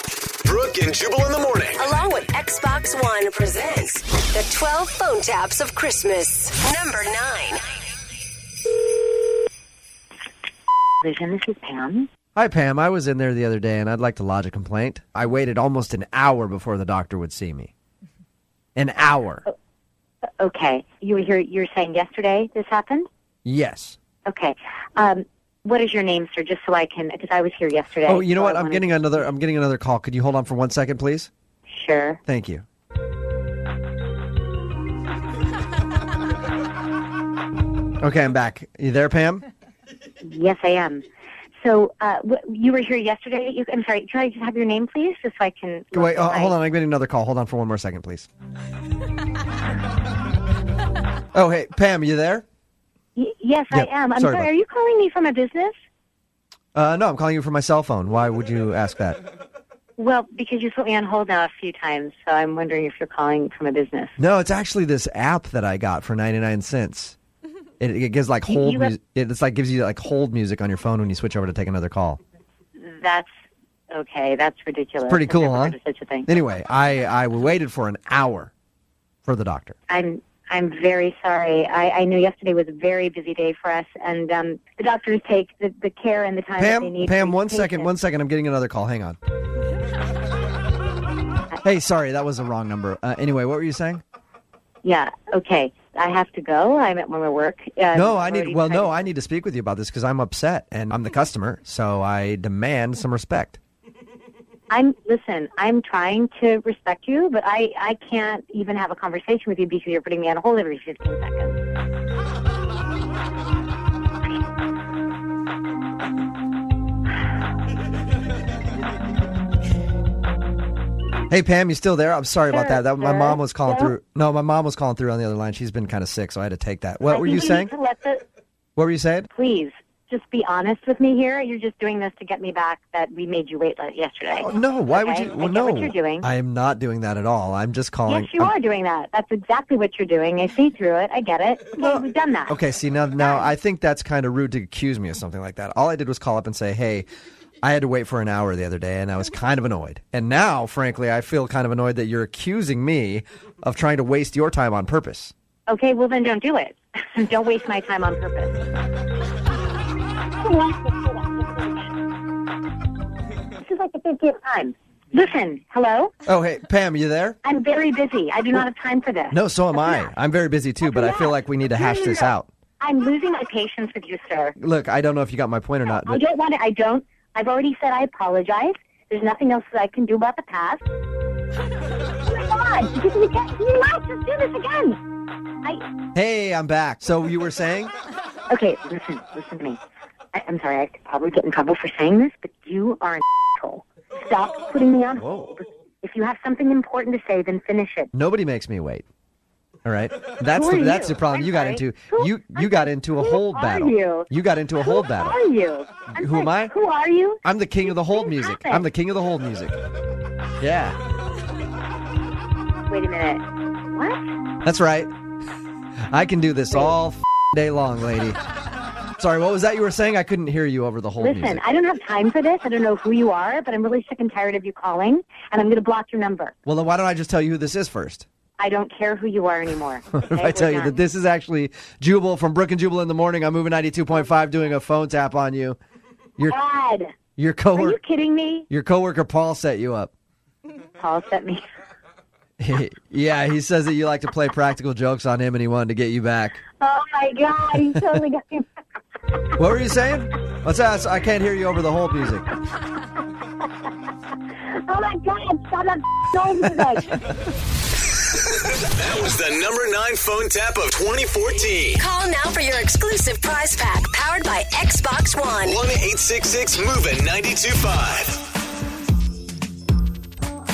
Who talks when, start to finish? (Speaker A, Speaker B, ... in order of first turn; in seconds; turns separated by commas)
Speaker A: 0.4-1.9, Speaker B: 1.8-7.6, Speaker C: 11.0-12.1, Speaker D: 12.3-17.7, Speaker D: 18.8-19.4, Speaker C: 20.4-23.1, Speaker D: 23.4-24.0, Speaker C: 24.2-28.9, Speaker D: 28.0-31.3, Speaker C: 31.7-32.2, Speaker D: 32.3-32.6, Speaker D: 38.0-39.4, Speaker C: 40.2-41.0, Speaker C: 41.6-46.5, Speaker D: 45.9-48.3, Speaker D: 51.3-52.4, Speaker C: 53.1-55.7, Speaker D: 53.7-54.5, Speaker D: 56.7-59.2, Speaker C: 60.0-64.2, Speaker D: 64.2-67.2, Speaker D: 67.8-72.2, Speaker C: 68.5-68.9, Speaker C: 72.8-73.3, Speaker C: 73.9-76.3, Speaker D: 75.0-78.5, Speaker D: 79.2-79.8, Speaker C: 79.9-87.9, Speaker D: 86.6-89.2, Speaker D: 91.6-94.0, Speaker C: 94.8-98.9, Speaker D: 97.9-103.6, Speaker C: 104.7-111.6, Speaker D: 121.3-127.7, Speaker C: 122.5-123.9, Speaker C: 127.1-128.2, Speaker D: 128.8-129.3, Speaker C: 129.3-136.3, Speaker D: 134.4-138.5, Speaker C: 138.1-142.5, Speaker D: 141.8-147.1, Speaker C: 143.2-143.4, Speaker D: 147.6-155.3, Speaker C: 155.7-158.6, Speaker C: 160.3-161.9, Speaker C: 163.6-166.1, Speaker D: 166.2-167.4, Speaker C: 167.4-170.1, Speaker D: 169.3-172.5, Speaker C: 170.8-174.6, Speaker D: 174.6-176.2, Speaker C: 175.9-180.8, Speaker C: 182.2-185.0, Speaker D: 186.1-187.9, Speaker C: 188.5-189.8, Speaker C: 190.3-198.1, Speaker D: 195.2-195.5, Speaker D: 198.1-199.0, Speaker D: 199.8-205.4, Speaker C: 200.5-208.8, Speaker D: 206.1-206.7, Speaker D: 207.4-209.8, Speaker D: 210.6-211.0, Speaker C: 212.9-214.2, Speaker D: 214.6-215.1, Speaker D: 216.1-218.4, Speaker D: 219.2-221.6, Speaker C: 221.2-226.5, Speaker D: 226.7-228.2, Speaker C: 228.6-231.0, Speaker D: 230.1-235.8, Speaker C: 236.5-237.1, Speaker D: 237.4-238.0, Speaker C: 237.7-238.7, Speaker D: 238.7-240.1, Speaker C: 241.0-241.6, Speaker D: 242.6-246.6, Speaker C: 246.8-248.7, Speaker D: 249.6-252.5, Speaker C: 254.7-257.2, Speaker A: 258.9-262.0, Speaker B: 262.0-265.8, Speaker A: 265.8-268.4